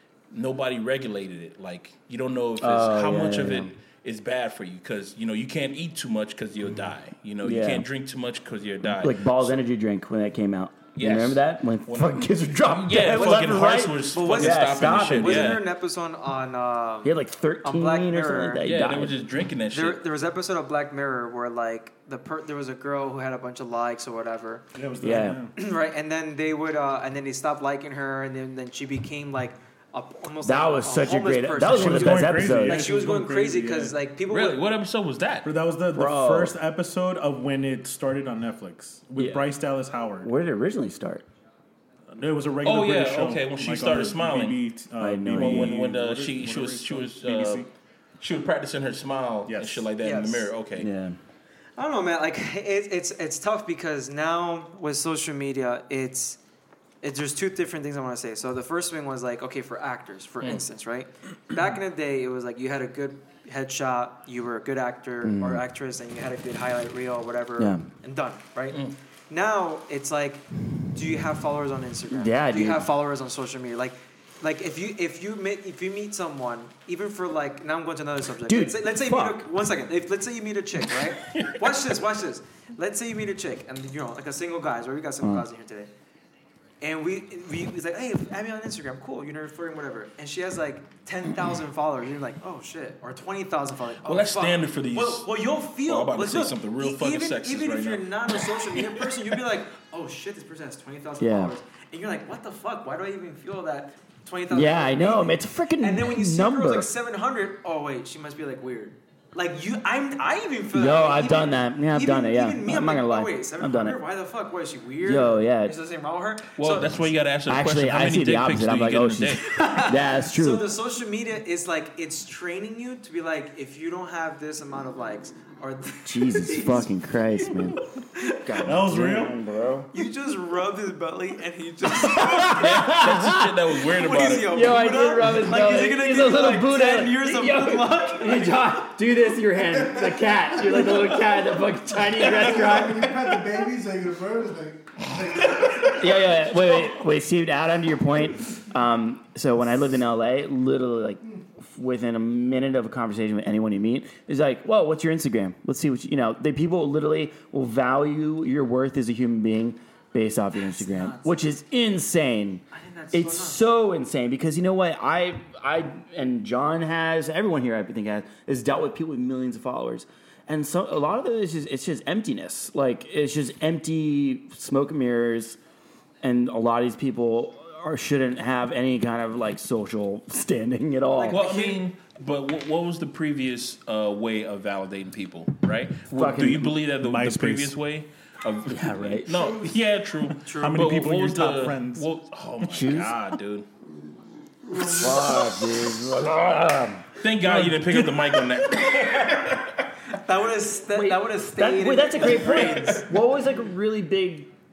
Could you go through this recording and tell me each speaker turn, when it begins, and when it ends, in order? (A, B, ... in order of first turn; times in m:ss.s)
0:00.3-0:09.6 A
0:02.6-0:03.7 B
0:07.4-0:07.9 B
0:08.9-0:15.6 B
0:11.0-0:15.6 A
0:13.2-0:18.6 C
0:17.0-0:19.2 B
0:18.6-0:20.0 A
0:19.7-0:24.6 C
0:24.8-0:25.5 D
0:25.0-0:25.4 B
0:25.6-0:34.6 C
0:30.4-0:32.9 B
0:31.6-0:34.0 D
0:34.3-0:35.5 A
0:35.4-0:40.3 D
0:35.9-0:36.6 B
0:39.2-0:39.5 B
0:40.2-0:41.3 B
0:42.1-0:47.7 D
0:42.6-0:44.6 A
0:45.0-0:45.8 B
0:45.3-0:47.7 A
0:48.2-0:50.9 A
0:49.5-0:49.9 D
0:50.0-0:50.5 C
0:50.8-0:51.2 B
0:51.8-0:56.4 C
0:57.0-1:25.9 C
1:05.2-1:05.6 B
1:07.6-1:07.9 B
1:12.1-1:12.9 B
1:18.5-1:19.4 B
1:26.8-1:57.0 C
1:34.0-1:35.3 A
1:35.8-1:39.0 A
1:41.2-1:41.5 B
1:44.5-1:46.9 B
1:50.7-1:54.0 B
1:55.0-1:55.8 B
1:56.6-1:59.4 A
1:57.5-2:00.7 B
1:59.5-2:06.9 C
2:06.0-2:07.8 B
2:08.2-2:08.4 C
2:08.4-2:09.9 B
2:08.6-2:09.4 D
2:09.9-2:12.9 C
2:12.0-2:13.6 B
2:12.5-2:14.6 A
2:13.9-2:18.7 C
2:14.4-2:23.4 B
2:22.2-2:26.0 E
2:26.0-2:55.6 B
2:40.8-2:41.4 C
2:42.7-2:43.6 C
2:56.2-3:01.4 B
3:01.2-3:01.8 C
3:01.3-3:13.7 A
3:06.1-3:06.8 B
3:07.0-3:07.8 D
3:08.7-3:09.4 B
3:10.4-3:10.8 C
3:10.5-3:12.1 D
3:12.6-3:13.2 B
3:14.7-3:18.1 B
3:17.2-3:19.7 A
3:20.1-3:23.1 C
3:20.9-3:24.5 B
3:22.2-3:23.0 A